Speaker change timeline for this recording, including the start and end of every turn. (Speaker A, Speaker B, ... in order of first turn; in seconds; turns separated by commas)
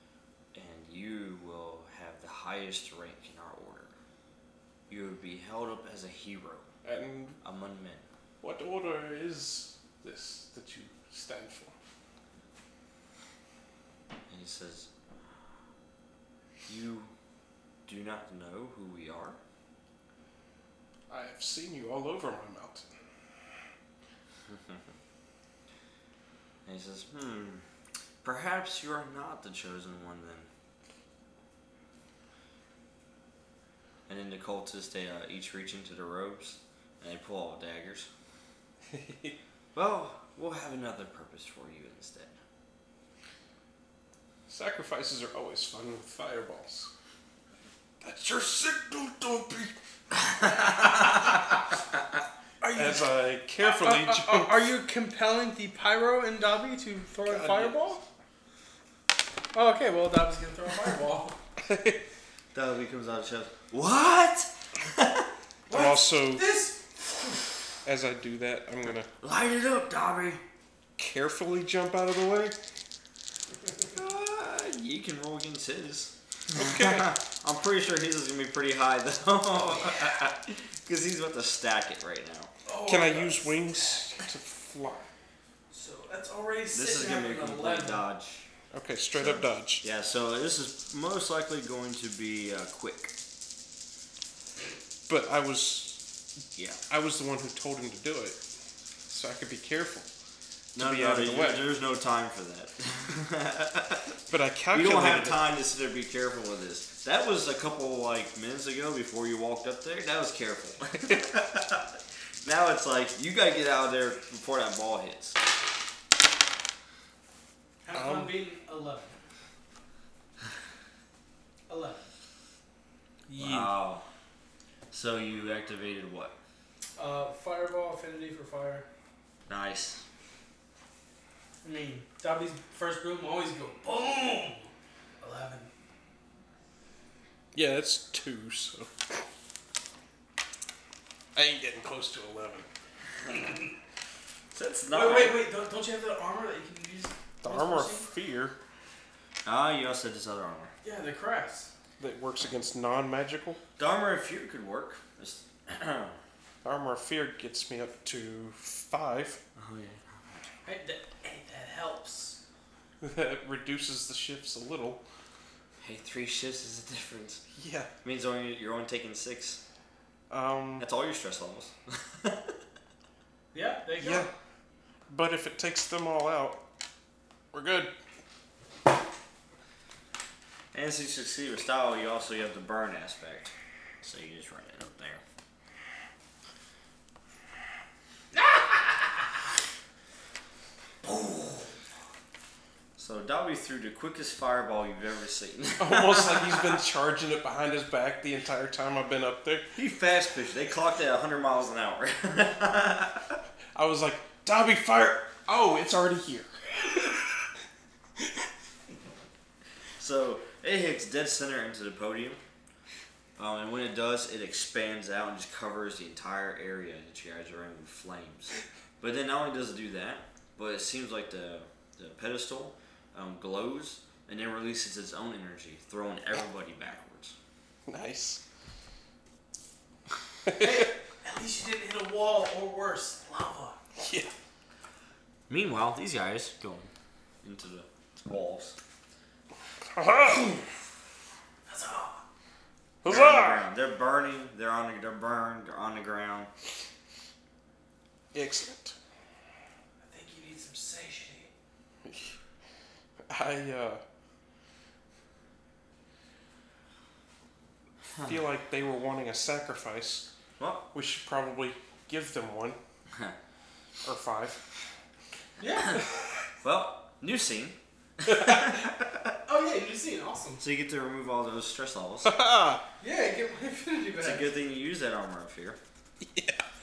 Speaker A: 0.5-3.9, Speaker A: 4.9-6.7, Speaker B: 6.8-7.4, Speaker A: 7.4-8.0, Speaker B: 8.4-11.7, Speaker A: 14.3-14.9, Speaker A: 16.7-17.1, Speaker A: 17.9-19.4, Speaker B: 21.1-22.9, Speaker A: 24.5-24.8, Speaker A: 26.6-27.6, Speaker A: 28.2-30.5, Speaker A: 34.1-38.1, Speaker B: 38.9-39.4, Speaker A: 39.7-42.3, Speaker B: 44.5-46.9, Speaker B: 48.0-49.8, Speaker C: 52.6-58.0, Speaker B: 52.7-54.6, Speaker B: 57.2-58.0, Speaker C: 59.5-61.4, Speaker B: 61.6-62.0, Speaker A: 62.5-65.3, Speaker C: 65.7-66.8, Speaker B: 65.7-66.5, Speaker B: 67.8-69.1, Speaker A: 69.2-70.4, Speaker B: 71.0-72.6, Speaker A: 73.9-82.5, Speaker B: 76.5-77.1, Speaker C: 79.7-80.2, Speaker C: 82.7-84.2, Speaker B: 82.9-85.1, Speaker C: 85.7-88.0, Speaker A: 86.7-88.5, Speaker B: 88.7-89.8, Speaker A: 89.2-93.2, Speaker B: 95.1-96.1, Speaker A: 96.5-96.8, Speaker B: 96.9-98.4, Speaker B: 99.1-100.1, Speaker A: 100.8-104.2, Speaker B: 100.8-101.7, Speaker B: 104.3-105.4, Speaker A: 104.7-115.4, Speaker C: 117.8-119.2, Speaker B: 117.9-118.3, Speaker C: 121.7-122.1, Speaker B: 123.3-123.7, Speaker A: 123.4-124.0, Speaker A: 124.9-126.3, Speaker C: 127.0-128.9, Speaker A: 129.5-130.0, Speaker C: 131.6-135.7, Speaker B: 137.5-139.2, Speaker B: 141.3-142.7, Speaker A: 144.5-145.4, Speaker C: 144.9-148.1, Speaker B: 147.4-148.6, Speaker A: 149.4-150.7, Speaker C: 150.8-151.7, Speaker B: 152.0-153.6, Speaker A: 153.8-156.2, Speaker B: 156.6-159.4, Speaker A: 159.6-160.0, Speaker C: 160.7-162.4, Speaker B: 163.0-165.0, Speaker A: 165.8-167.4, Speaker B: 167.6-167.9, Speaker A: 168.0-169.6, Speaker B: 170.3-170.9, Speaker A: 170.8-172.6, Speaker C: 173.5-174.3, Speaker B: 174.0-174.3, Speaker B: 175.1-176.6, Speaker B: 177.5-178.0, Speaker A: 180.7-185.2, Speaker A: 191.0-191.7, Speaker A: 193.0-196.8, Speaker B: 195.8-199.7, Speaker A: 199.8-203.4, Speaker B: 203.8-207.3, Speaker A: 210.0-212.4, Speaker A: 213.4-227.4, Speaker B: 227.9-228.4, Speaker B: 230.5-230.8, Speaker C: 230.6-233.8, Speaker B: 234.0-234.3, Speaker A: 235.5-236.9, Speaker A: 237.4-238.8, Speaker B: 239.8-240.8, Speaker C: 241.7-242.2, Speaker B: 243.0-243.7, Speaker A: 243.1-246.5, Speaker B: 248.3-249.0, Speaker C: 250.0-251.5, Speaker B: 252.0-252.4, Speaker B: 253.3-254.0, Speaker B: 258.3-260.3, Speaker A: 260.6-260.9, Speaker B: 260.9-262.8, Speaker B: 264.0-264.6, Speaker C: 265.6-266.1, Speaker A: 266.6-269.4, Speaker B: 268.3-268.6, Speaker C: 269.5-270.6, Speaker A: 270.6-272.4, Speaker B: 272.2-272.8, Speaker C: 273.0-274.6, Speaker A: 274.2-275.8, Speaker B: 276.2-276.6